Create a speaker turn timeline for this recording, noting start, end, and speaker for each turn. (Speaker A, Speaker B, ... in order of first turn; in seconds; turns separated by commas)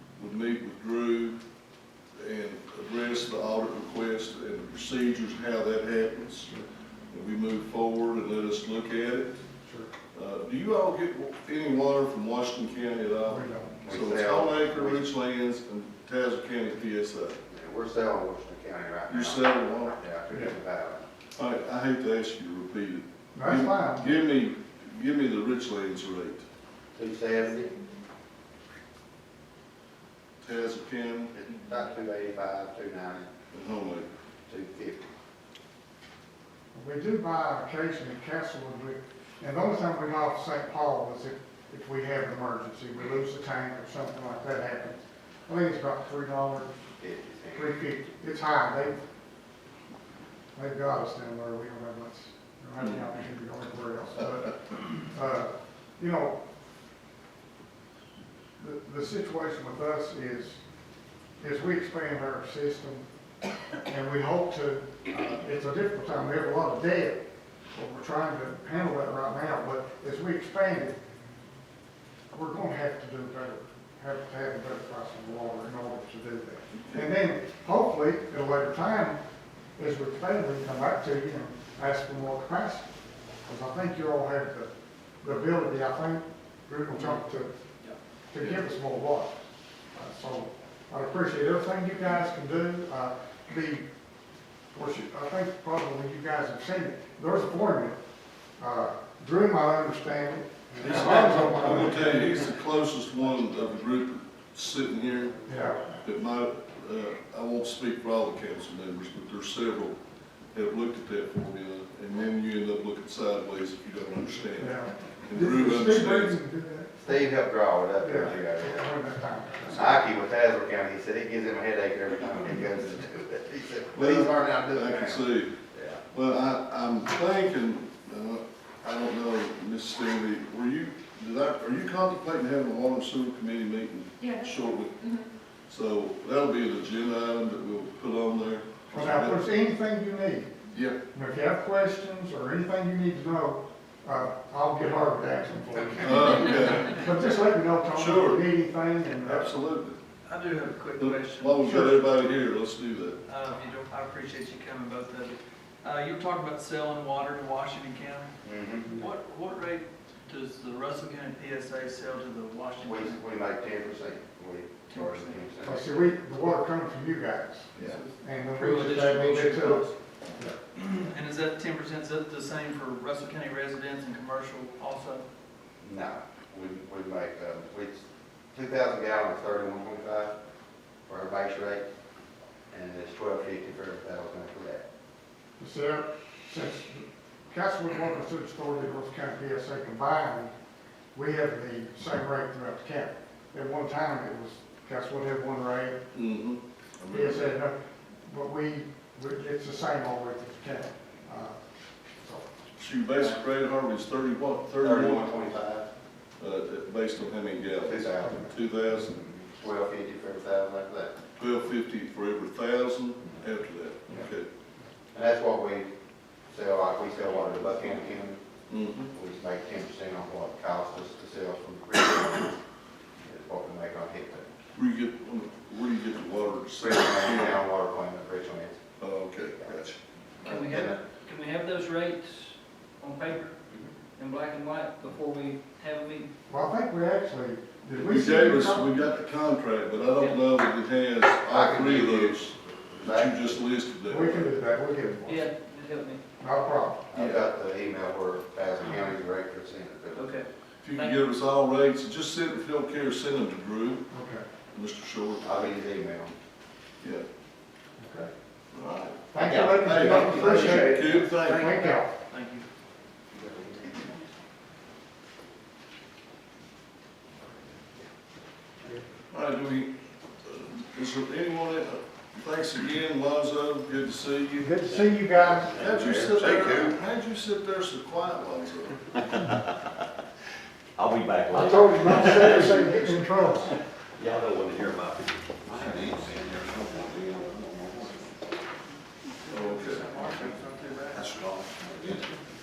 Speaker A: 0.2-1.4, Speaker A: 2.2-6.5, Speaker A: 7.1-9.4, Speaker B: 9.6-9.9, Speaker A: 10.1-17.4, Speaker B: 13.3-13.8, Speaker C: 13.8-15.1, Speaker C: 17.5-21.0, Speaker A: 19.1-19.9, Speaker A: 21.4-26.4, Speaker B: 23.4-24.1, Speaker C: 26.9-27.7, Speaker A: 30.4-31.3, Speaker C: 31.3-33.3, Speaker A: 33.5-34.1, Speaker C: 34.5-35.1, Speaker B: 36.7-46.8, Speaker C: 47.0-47.8, Speaker B: 47.5-49.0, Speaker B: 50.5-56.4, Speaker B: 58.6-60.6, Speaker B: 61.4-63.1, Speaker B: 63.9-71.0, Speaker B: 72.3-79.2, Speaker B: 79.8-82.9, Speaker B: 83.5-84.7, Speaker B: 85.2-87.5, Speaker B: 88.3-89.4, Speaker B: 89.9-93.9, Speaker B: 94.7-98.0, Speaker B: 98.6-102.6, Speaker A: 100.8-105.5, Speaker B: 103.4-103.7, Speaker B: 105.4-106.0, Speaker A: 106.0-110.0, Speaker A: 110.5-116.4, Speaker B: 114.5-117.2, Speaker C: 117.0-118.8, Speaker B: 118.0-120.0, Speaker C: 119.7-125.9, Speaker A: 123.9-125.5, Speaker A: 126.1-135.1, Speaker D: 134.2-135.2, Speaker A: 135.7-139.4, Speaker B: 138.9-140.5, Speaker A: 140.7-141.0, Speaker B: 141.1-149.6, Speaker A: 146.0-147.1, Speaker A: 147.9-148.5, Speaker A: 149.2-150.0, Speaker E: 150.3-152.1, Speaker A: 151.0-153.2, Speaker B: 151.7-152.0, Speaker E: 153.3-158.3, Speaker C: 158.4-158.9, Speaker E: 158.9-163.2, Speaker C: 162.8-165.8, Speaker E: 164.9-165.4, Speaker B: 165.6-170.6, Speaker E: 167.8-169.9, Speaker E: 170.8-175.2, Speaker C: 175.8-180.3, Speaker C: 181.1-181.9, Speaker C: 182.7-184.8, Speaker B: 185.6-190.5, Speaker B: 191.1-196.0, Speaker A: 196.1-197.5, Speaker B: 197.1-201.6, Speaker B: 202.2-202.5, Speaker A: 202.8-205.3, Speaker C: 204.8-205.9, Speaker A: 206.4-209.1, Speaker C: 207.8-208.5, Speaker C: 209.1-211.2, Speaker A: 211.4-214.5, Speaker C: 215.1-215.9, Speaker C: 216.5-218.4, Speaker A: 218.7-219.1, Speaker C: 219.1-222.6, Speaker C: 223.2-224.5, Speaker A: 224.8-227.6, Speaker C: 226.8-228.8, Speaker A: 229.0-230.0, Speaker E: 230.4-233.5, Speaker C: 230.6-231.0, Speaker E: 234.2-236.3, Speaker D: 234.2-235.8, Speaker B: 236.5-239.0, Speaker A: 237.9-244.5, Speaker C: 241.5-243.6, Speaker B: 244.1-245.5, Speaker D: 245.3-246.2, Speaker B: 246.4-247.1, Speaker C: 247.1-250.3, Speaker A: 247.1-247.4, Speaker D: 250.2-251.2, Speaker A: 250.8-254.1, Speaker B: 254.1-254.5, Speaker A: 254.7-255.7, Speaker C: 255.4-256.4, Speaker B: 258.0-258.3, Speaker A: 258.7-261.9, Speaker B: 259.3-262.1, Speaker F: 259.4-261.9, Speaker E: 262.3-262.7, Speaker A: 269.3-269.9, Speaker A: 270.4-274.8, Speaker B: 274.6-275.8, Speaker A: 275.7-279.1, Speaker F: 275.9-276.8, Speaker F: 281.0-283.3, Speaker B: 281.5-283.7, Speaker F: 284.2-288.2, Speaker E: 289.4-291.5, Speaker A: 289.5-290.1, Speaker F: 291.1-292.3